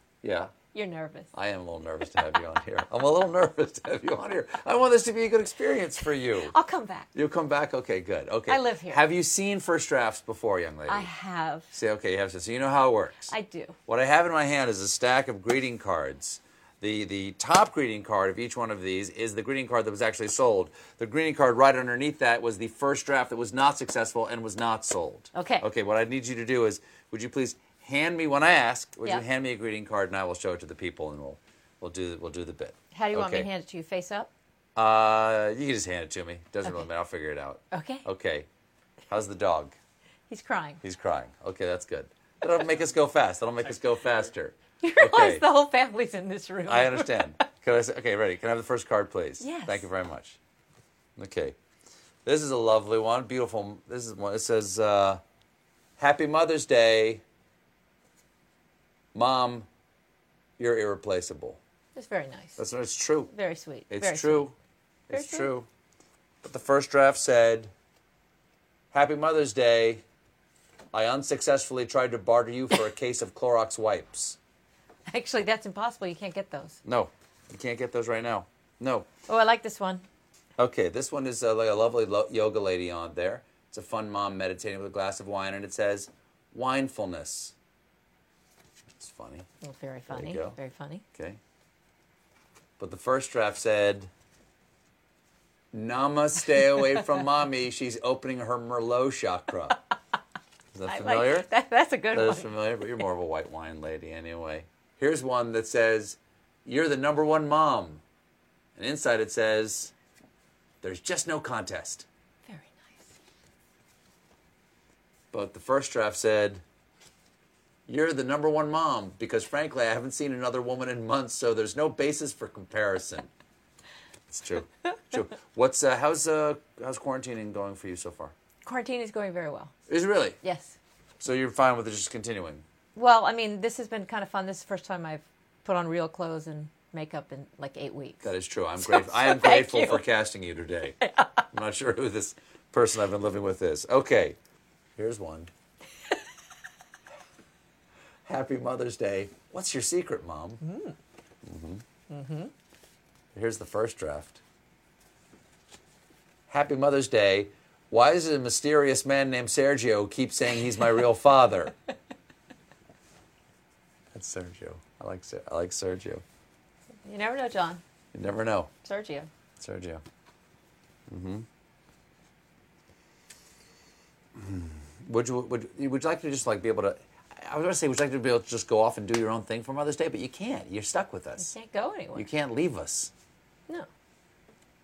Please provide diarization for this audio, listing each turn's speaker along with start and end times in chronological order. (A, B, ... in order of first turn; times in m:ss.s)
0:00.2-0:00.5 A
0:00.7-0:01.3 B
0:01.3-0:06.6 A
0:06.5-0:07.1 B
0:07.2-0:11.1 A
0:08.5-0:09.0 B
0:10.9-0:11.7 B
0:11.7-0:13.3 A
0:13.3-0:13.8 B
0:13.9-0:33.5 A
0:25.4-0:25.6 B
0:33.0-0:34.3 B
0:34.8-0:38.5 A
0:37.7-0:38.0 B
0:39.1-0:39.8 A
0:40.3-0:40.8 B
0:40.8-0:45.5 A
0:44.8-0:47.1 B
0:46.7-0:50.4 A
0:49.4-0:49.8 B
0:51.2-0:51.6 A
0:52.2-0:55.2 A
0:56.0-0:57.2 A
0:59.1-0:59.7 A
1:00.6-1:01.6 A
1:02.0-1:02.6 B
1:02.6-1:03.3 A
1:03.3-1:04.5 B
1:03.9-1:04.5 A
1:05.1-1:05.7 A
1:05.1-1:05.5 B
1:06.4-1:07.7 A
1:08.9-1:10.0 A
1:10.9-1:14.4 A
1:15.1-1:16.8 B
1:16.8-1:19.1 A
1:19.3-1:20.0 B
1:20.6-1:27.5 A
1:29.0-1:29.5 A
1:29.6-1:31.0 B
1:30.1-1:30.6 A
1:32.8-1:34.1 A
1:35.7-1:39.8 A
1:40.7-1:41.5 A
1:40.9-1:42.5 B
1:42.1-1:48.0 A
1:48.8-1:49.9 A
1:50.8-1:52.1 A
1:55.3-1:56.6 A
1:57.9-2:03.3 A
2:04.3-2:08.3 A
2:08.6-2:09.7 B
2:09.9-2:10.4 A
2:10.4-2:10.7 B
2:11.2-2:12.6 A
2:13.0-2:18.3 B
2:18.2-2:24.4 A
2:19.2-2:19.7 B
2:25.0-2:25.5 A
2:28.3-2:30.6 A
2:31.5-2:31.8 A
2:32.1-2:32.5 B
2:33.3-2:34.4 A
2:36.5-2:41.8 A
2:44.1-2:46.2 A
2:47.0-2:47.8 B
2:48.1-2:48.7 A
2:48.8-2:49.3 B
2:49.6-2:50.0 A
2:51.1-2:51.5 A
2:54.4-3:01.6 A
3:01.4-3:02.3 B
3:02.2-3:03.1 A